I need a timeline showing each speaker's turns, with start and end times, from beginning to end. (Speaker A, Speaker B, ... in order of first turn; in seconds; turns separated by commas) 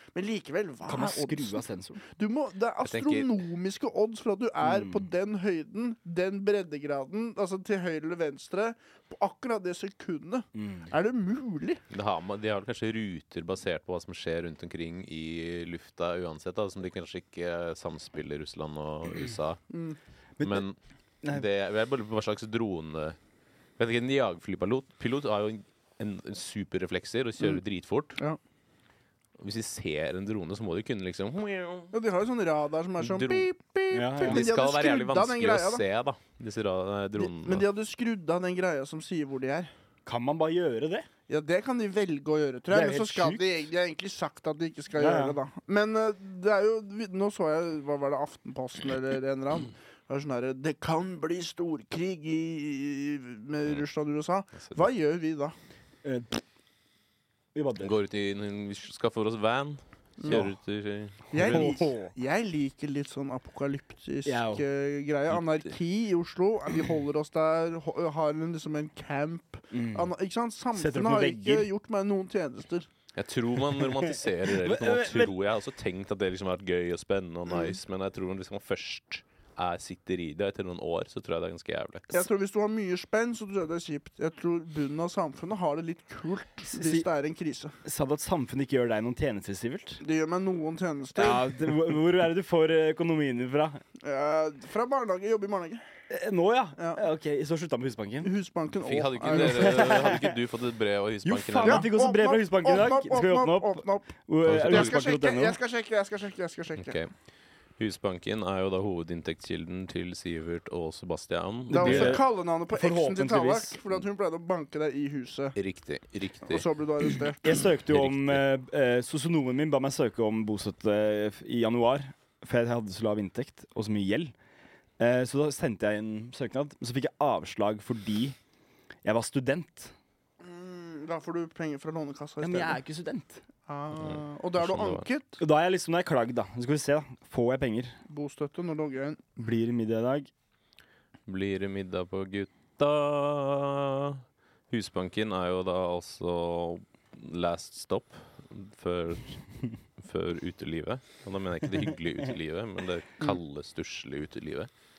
Speaker A: 0.1-11.8, Speaker B: 0.9-2.0, Speaker C: 2.8-3.3, Speaker B: 4.6-5.1, Speaker B: 10.6-10.9, Speaker C: 11.9-19.6, Speaker A: 19.7-20.0, Speaker C: 20.4-23.2, Speaker C: 23.8-28.2, Speaker C: 29.4-31.9, Speaker A: 31.9-35.8, Speaker C: 33.0-33.5, Speaker B: 33.9-34.5, Speaker C: 34.2-37.6, Speaker A: 37.2-39.7, Speaker B: 40.1-41.1, Speaker A: 41.3-55.5, Speaker B: 42.7-43.5, Speaker B: 45.0-45.4, Speaker B: 56.0-56.4, Speaker B: 57.5-57.9, Speaker C: 57.8-61.8, Speaker A: 60.2-60.5, Speaker A: 61.3-72.9, Speaker B: 61.4-61.8, Speaker B: 64.3-64.7, Speaker B: 69.7-70.1, Speaker B: 70.7-71.7, Speaker C: 73.2-82.2, Speaker B: 73.8-75.3, Speaker A: 82.1-87.8, Speaker B: 86.7-87.1, Speaker B: 87.8-90.0, Speaker A: 90.0-91.6, Speaker B: 91.2-93.8, Speaker A: 94.0-95.8, Speaker B: 96.1-98.3, Speaker A: 96.8-97.0, Speaker A: 98.2-100.1, Speaker C: 98.8-101.9, Speaker B: 99.3-100.4, Speaker B: 101.2-105.6, Speaker A: 101.6-107.0, Speaker C: 104.5-105.0, Speaker C: 106.8-107.1, Speaker C: 107.8-112.2, Speaker A: 111.7-115.6, Speaker B: 111.7-113.8, Speaker C: 115.6-116.6, Speaker A: 116.5-117.5, Speaker B: 117.4-124.3, Speaker C: 117.9-118.4, Speaker B: 125.0-128.4, Speaker B: 129.0-129.9, Speaker A: 130.4-132.8, Speaker B: 132.4-133.4, Speaker A: 133.7-135.4, Speaker C: 134.0-135.1, Speaker B: 135.4-137.9, Speaker A: 138.1-139.2, Speaker B: 139.4-140.3, Speaker C: 141.3-149.4, Speaker C: 150.0-154.7